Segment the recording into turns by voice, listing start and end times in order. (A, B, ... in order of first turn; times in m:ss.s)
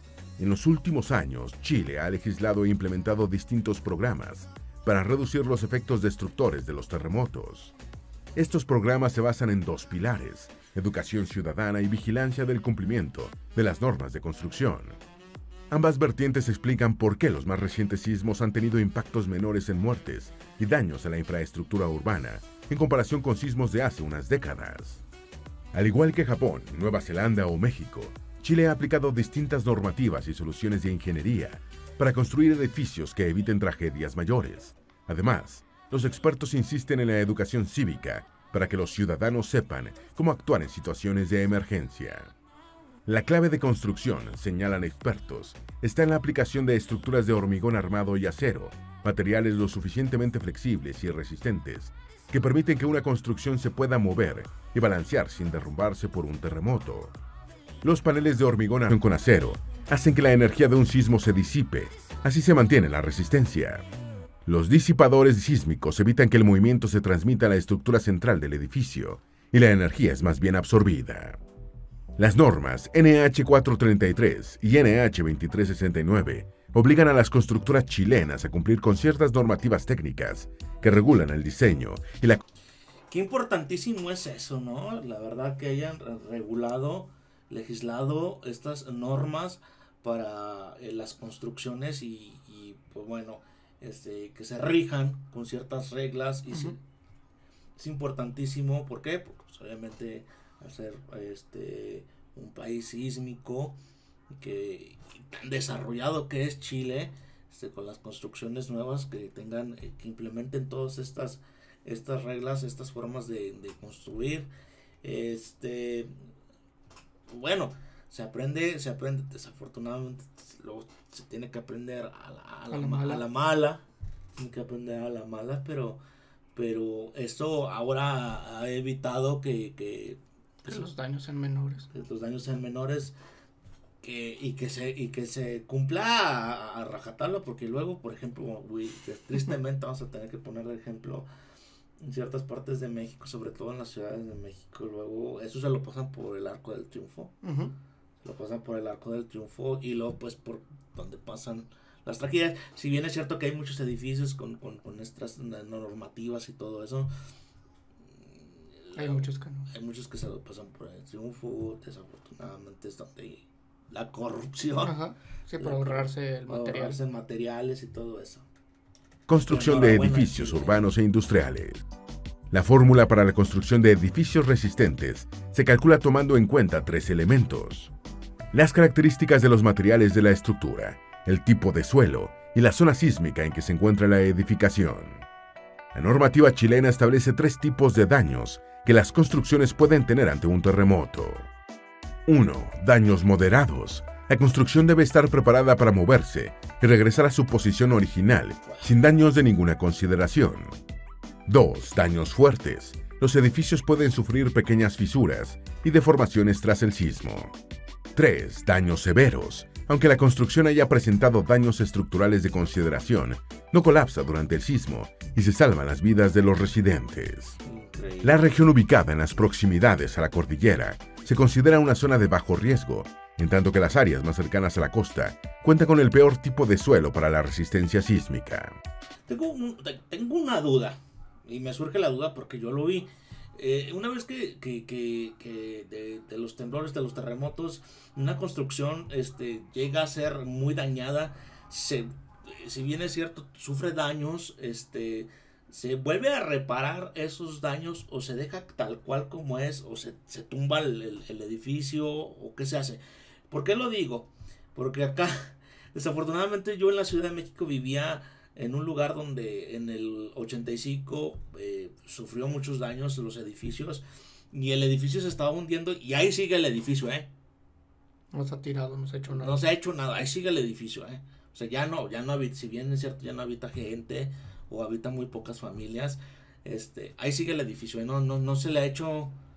0:00.4-0:07.7 A
0:08.4-0:15.0 A
0:15.7-0:25.0 A
0:25.7-0:42.3 A
0:43.0-0:57.2 A
0:57.8-1:03.9 A
1:04.4-1:11.4 A
1:12.2-1:22.4 A
1:23.1-1:36.8 B
1:37.8-1:43.8 B
1:44.3-1:54.5 B
1:55.0-1:56.2 B
1:57.3-2:06.0 B
2:02.7-2:03.2 C
2:06.5-2:10.9 B
2:10.6-2:11.9 C
2:11.9-2:13.2 B
2:14.0-2:21.3 B
2:22.0-2:27.4 B
2:27.4-2:27.7 C
2:28.2-2:37.1 B
2:38.2-2:45.0 B
2:39.0-2:39.7 C
2:44.8-2:47.0 C
2:45.6-2:48.5 B
2:49.3-2:51.8 A
2:49.4-2:50.8 B
2:52.5-2:57.9 A
2:58.5-3:05.2 A
3:05.9-3:11.5 A
3:12.2-3:20.8 A
3:18.6-3:18.9 B
3:21.4-3:27.5 A
3:28.1-3:37.6 A
3:37.6-3:38.4 B
3:38.2-3:48.8 A
3:49.3-4:27.3 B
4:28.3-4:29.6 C
4:29.3-4:39.4 B